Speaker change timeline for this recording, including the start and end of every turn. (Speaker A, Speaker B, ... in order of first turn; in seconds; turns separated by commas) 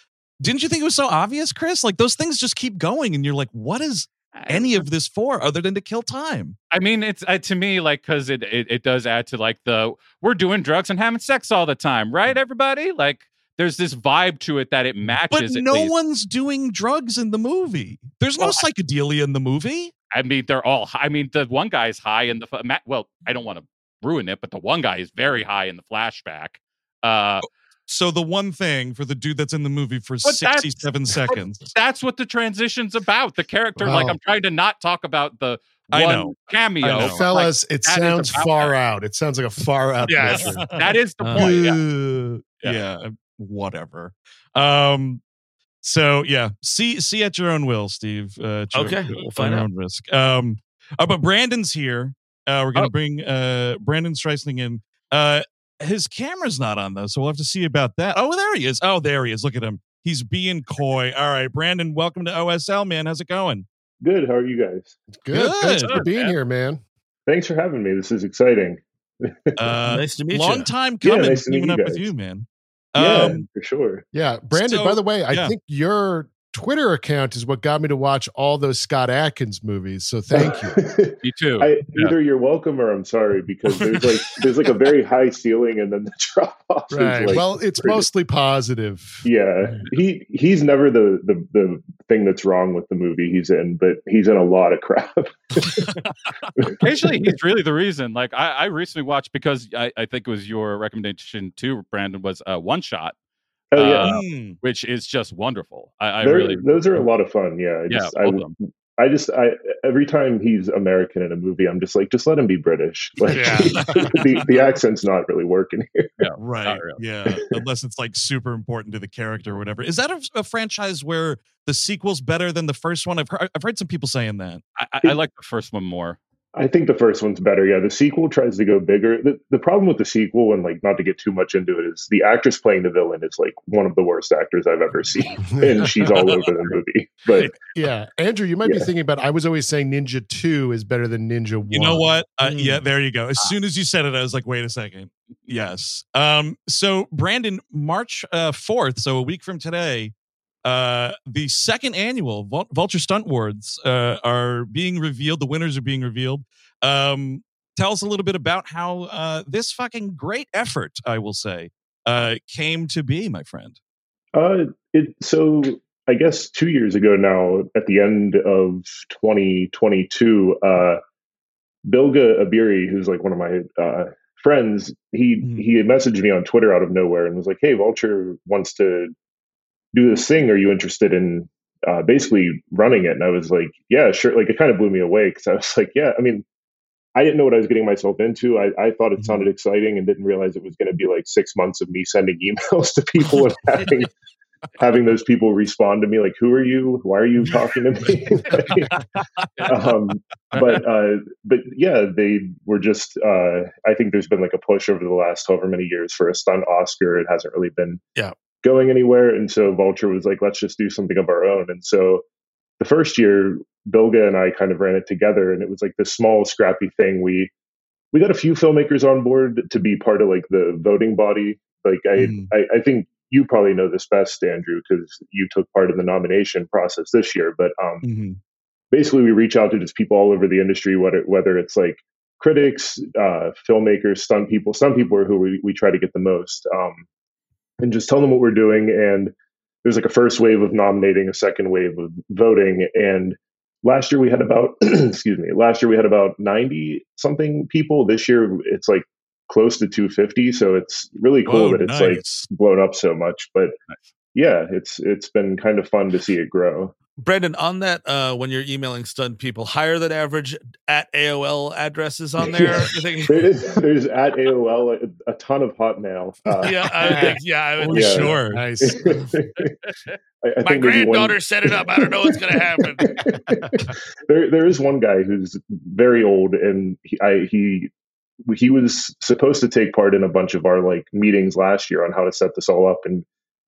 Speaker A: 0.4-6.6, Speaker B: 4.3-4.8, Speaker B: 6.7-15.9, Speaker A: 15.3-19.9, Speaker B: 18.4-18.6, Speaker B: 20.1-27.4, Speaker A: 27.4-31.7, Speaker B: 30.2-30.8, Speaker B: 31.7-38.7, Speaker C: 33.8-34.2, Speaker A: 35.9-37.2, Speaker C: 37.0-40.7, Speaker D: 40.0-40.6, Speaker A: 40.4-40.7, Speaker B: 40.7-41.8, Speaker D: 41.2-41.5, Speaker A: 41.3-45.2, Speaker A: 45.8-63.6, Speaker D: 48.7-49.7, Speaker E: 64.0-65.0, Speaker C: 65.1-66.8, Speaker A: 65.3-66.0, Speaker B: 65.9-66.3, Speaker E: 67.3-69.6, Speaker A: 69.5-73.5, Speaker D: 69.9-70.7, Speaker E: 71.0-72.1, Speaker E: 73.0-74.0, Speaker C: 74.1-80.8, Speaker A: 74.5-75.5, Speaker E: 80.4-88.0, Speaker B: 81.2-82.1, Speaker D: 83.7-84.4, Speaker C: 86.9-89.2, Speaker E: 89.2-95.9, Speaker A: 96.0-96.5, Speaker E: 96.6-97.2, Speaker B: 96.8-103.1, Speaker E: 103.7-104.2, Speaker B: 103.7-106.8, Speaker A: 104.0-104.6, Speaker E: 106.2-116.1, Speaker B: 107.9-108.5, Speaker D: 113.3-113.9, Speaker A: 113.7-114.3, Speaker B: 116.2-117.0, Speaker A: 116.4-124.6, Speaker B: 124.8-126.2, Speaker E: 126.5-137.5, Speaker C: 135.6-136.0, Speaker A: 136.1-136.4, Speaker C: 137.7-142.1, Speaker A: 141.7-150.1, Speaker D: 142.4-142.8, Speaker A: 150.6-163.8, Speaker E: 164.3-171.0, Speaker E: 171.8-179.1, Speaker A: 175.4-175.7, Speaker E: 179.9-186.4, Speaker E: 187.2-194.1, Speaker A: 189.2-189.5, Speaker E: 194.8-198.9, Speaker A: 198.5-199.8, Speaker E: 199.6-208.0, Speaker A: 200.5-200.8, Speaker E: 208.6-212.2, Speaker E: 212.8-217.5, Speaker E: 218.1-228.1, Speaker A: 222.2-222.5, Speaker A: 228.0-228.4, Speaker E: 228.9-237.0, Speaker E: 237.8-253.8, Speaker A: 251.4-252.5, Speaker E: 254.3-256.9, Speaker D: 257.2-263.6, Speaker E: 262.4-267.4, Speaker D: 266.6-268.4, Speaker C: 267.0-267.4, Speaker A: 267.8-268.6, Speaker E: 267.9-269.7, Speaker C: 268.5-269.2, Speaker E: 270.4-277.9, Speaker D: 270.6-273.1, Speaker C: 273.3-273.7, Speaker E: 278.5-283.2